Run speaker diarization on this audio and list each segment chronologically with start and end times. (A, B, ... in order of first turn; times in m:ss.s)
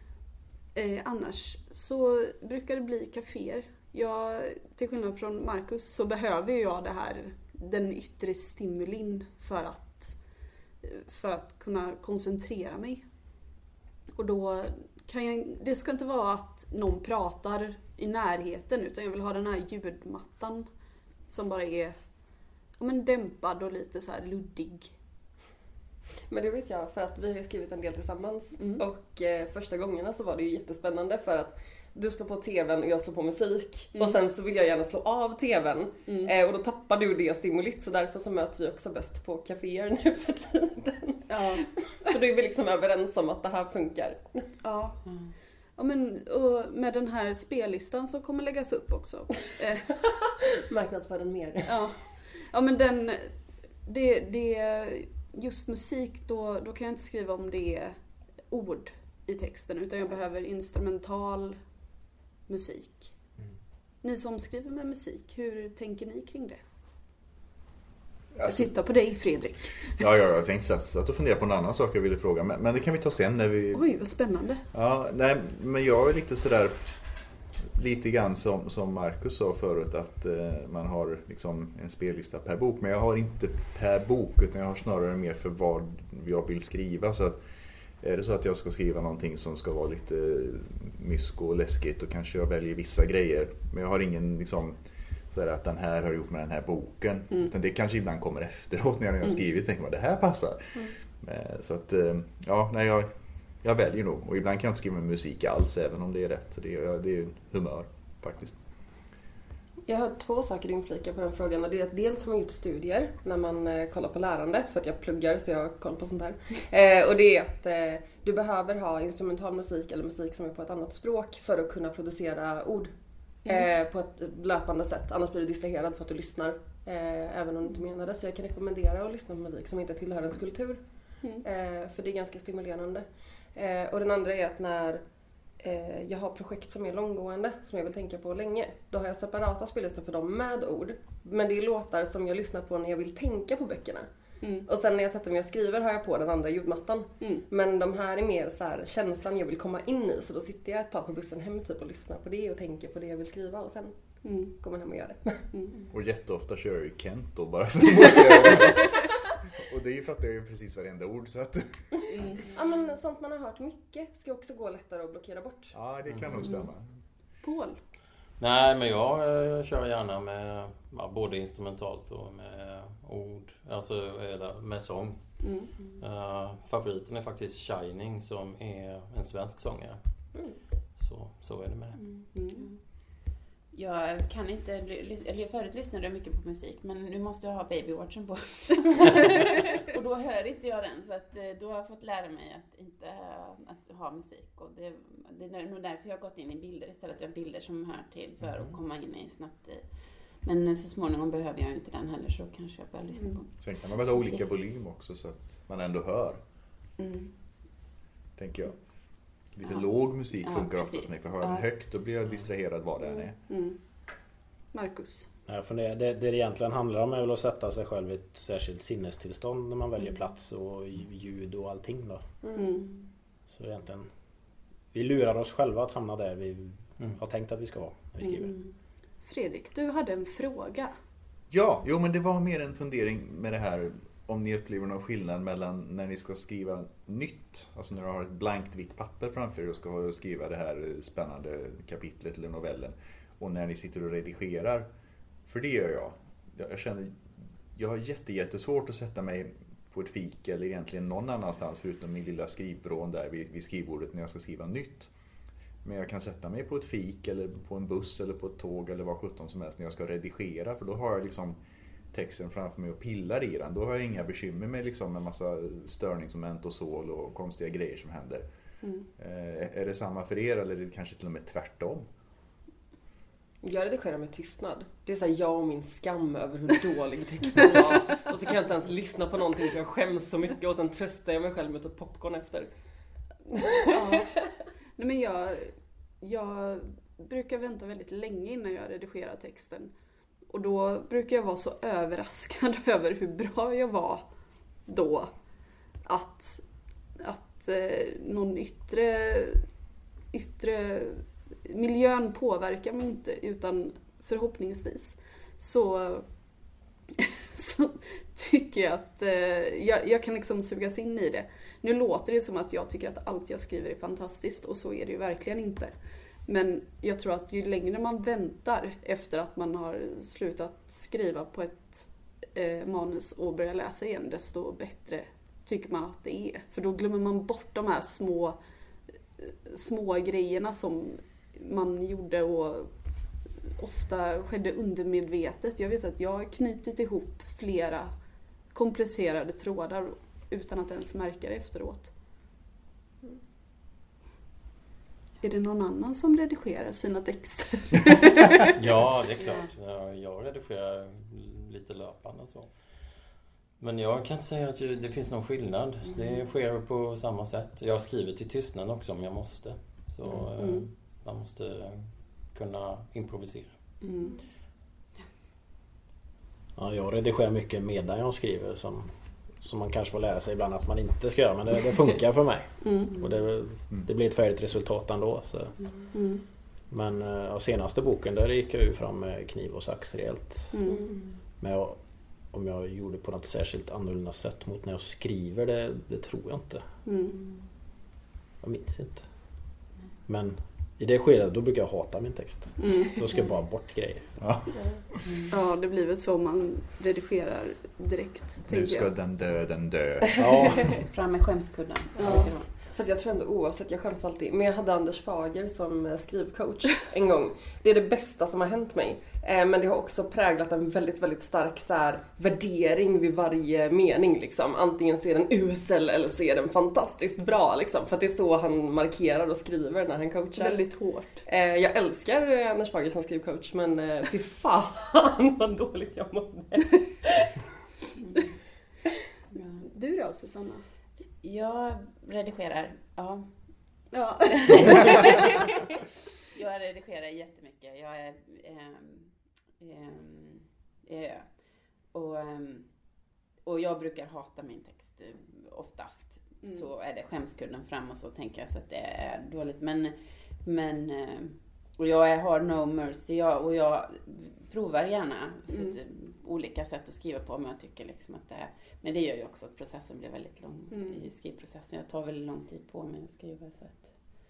0:00.7-0:10.2 A
0:10.8-0:13.0 A
0:14.2-0:20.7 A
0:21.3-0:22.0 A
0:22.8-0:24.9 A
0:26.3-0:44.5 B
0:28.6-0:28.8 A
0:36.1-0:36.3 A
0:41.3-0:41.7 A
0:44.6-0:45.0 A
0:45.1-0:45.3 C
0:45.8-0:49.9 A
0:50.7-0:51.7 B
0:51.6-1:01.6 A
1:02.5-1:03.2 A
1:04.0-1:06.6 A
1:08.3-1:08.8 D
1:08.4-1:10.0 A
1:09.9-1:14.0 D
1:13.7-1:14.6 A
1:14.7-1:16.9 D
1:17.6-1:27.4 D
1:28.0-1:48.6 D
1:49.9-2:15.0 B
2:15.6-2:24.1 B
2:24.4-2:24.7 A
2:24.6-2:35.5 B
2:34.2-2:34.6 A
2:35.5-2:35.8 A
2:35.9-2:42.0 D
2:42.1-2:42.4 A
2:42.5-2:45.8 B
2:45.7-2:47.0 D
2:46.4-2:46.7 A
2:47.4-2:47.8 A
2:48.4-3:00.4 E
2:55.4-2:55.7 A
3:01.0-3:02.0 E
3:02.0-3:02.7 A
3:02.6-3:19.9 C
3:20.4-3:23.5 C
3:23.1-3:23.4 A
3:23.6-3:26.4 D
3:24.1-3:24.4 C
3:27.0-3:27.3 A
3:28.4-3:28.9 D
3:29.5-3:33.4 D
3:30.3-3:31.7 C
3:33.5-3:33.8 A
3:34.7-3:35.3 A
3:35.5-3:42.3 F
3:42.4-3:42.8 B
3:42.6-3:43.0 A
3:43.5-3:44.1 F
3:44.9-3:48.6 F
3:48.2-3:51.0 A
3:51.5-4:04.9 D
4:05.5-4:07.2 D
4:07.8-4:15.1 D
4:15.8-4:21.6 D
4:22.1-4:28.5 D
4:28.8-4:29.1 A
4:29.2-4:32.1 D
4:33.6-4:42.7 B
4:43.5-4:44.4 B
4:43.9-4:44.3 A
4:45.0-4:49.9 A
4:50.5-4:54.3 A
4:54.9-4:55.3 A
4:56.0-4:56.6 A
4:57.2-4:59.6 A
5:00.3-5:06.3 A
5:07.1-5:15.9 A
5:16.5-5:28.6 A
5:29.4-5:32.9 A
5:33.8-5:38.1 A
5:38.7-5:42.1 A
5:45.4-5:48.8 A
5:48.8-6:03.9 E
6:00.6-6:00.9 A
6:04.0-6:04.4 A
6:06.8-6:15.8 F
6:12.8-6:13.2 A
6:16.1-6:16.5 A
6:16.9-6:20.8 F
6:20.7-6:21.1 A
6:20.9-6:21.2 B
6:21.6-6:26.9 F
6:27.0-6:27.4 A
6:28.6-6:34.5 F
6:32.8-6:33.2 A
6:34.4-6:35.2 D
6:34.7-6:35.0 B
6:35.5-6:39.1 A
6:38.7-6:40.9 D
6:40.4-6:40.9 F
6:41.1-6:42.6 C
6:42.2-6:42.6 A
6:42.2-7:07.6 B
7:00.6-7:01.4 A
7:08.2-7:08.5 C
7:09.5-7:09.8 C
7:09.8-7:10.9 A
7:11.4-7:13.5 C
7:14.1-7:15.4 A
7:14.5-7:15.9 C
7:16.5-7:21.5 C
7:22.1-7:22.9 C
7:23.6-7:44.2 C
7:26.6-7:26.9 A
7:35.7-7:36.0 A
7:40.9-7:41.2 A